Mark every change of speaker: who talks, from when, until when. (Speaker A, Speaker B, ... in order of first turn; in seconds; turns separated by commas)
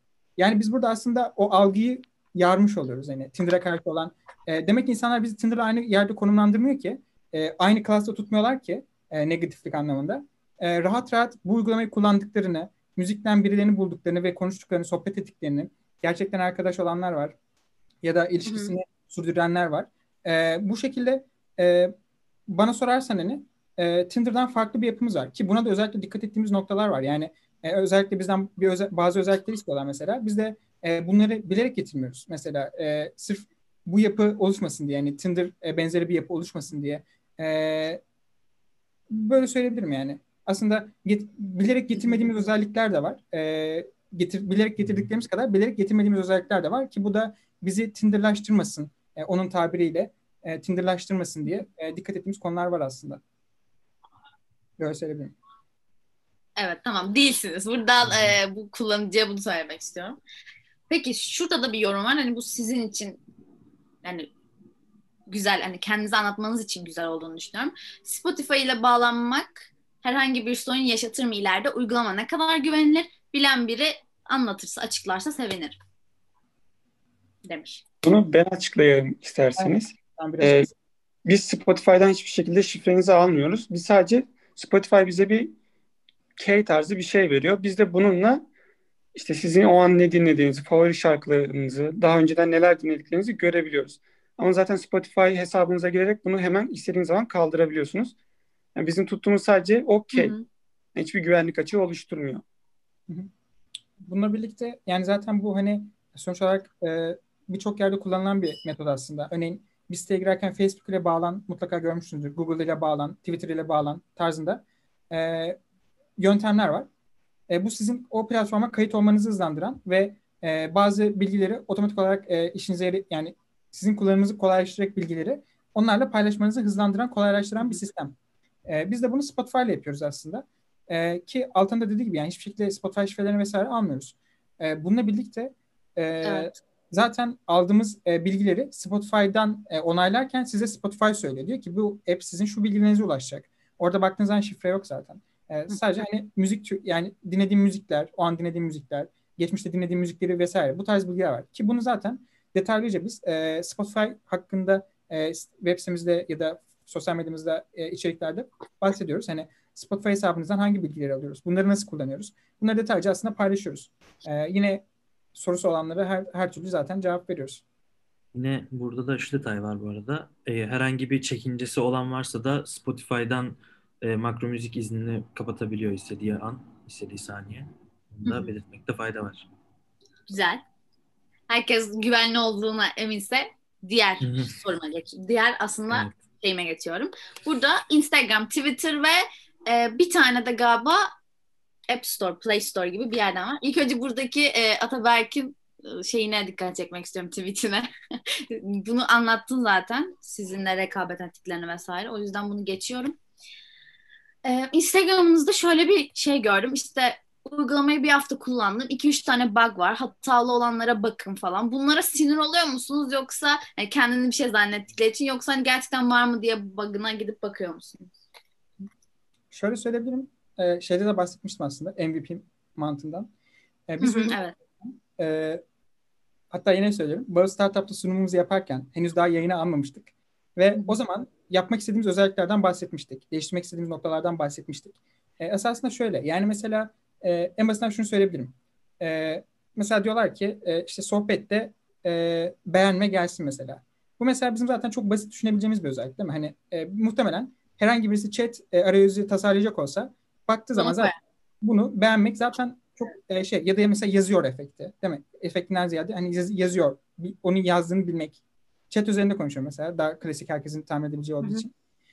Speaker A: 0.4-17.4, Speaker A: 18.0-21.9, Speaker B: 18.4-18.7, Speaker A: 22.5-38.0, Speaker A: 39.1-53.2, Speaker A: 54.8-55.3, Speaker B: 56.6-60.2, Speaker C: 58.0-58.3, Speaker B: 60.9-63.2, Speaker B: 64.0-64.3, Speaker B: 65.3-75.8, Speaker B: 77.4-77.8, Speaker D: 78.0-80.7, Speaker A: 79.6-80.7, Speaker D: 81.2-85.5, Speaker D: 86.4-88.4, Speaker D: 89.1-98.1, Speaker D: 98.8-100.3, Speaker B: 100.1-100.4, Speaker D: 100.9-102.4, Speaker A: 104.0-115.6, Speaker A: 116.2-116.9, Speaker A: 117.5-128.1, Speaker A: 128.7-164.8, Speaker B: 136.2-136.5, Speaker A: 165.3-167.6, Speaker C: 168.3-179.5, Speaker B: 178.2-178.5, Speaker B: 180.3-180.6, Speaker B: 181.5-191.1, Speaker C: 184.2-184.5, Speaker C: 185.9-186.2, Speaker B: 191.9-203.2, Speaker B: 204.4-218.2, Speaker A: 219.5-223.3, Speaker A: 223.9-225.6, Speaker B: 224.0-224.6, Speaker A: 226.5-261.7, Speaker B: 250.8-251.1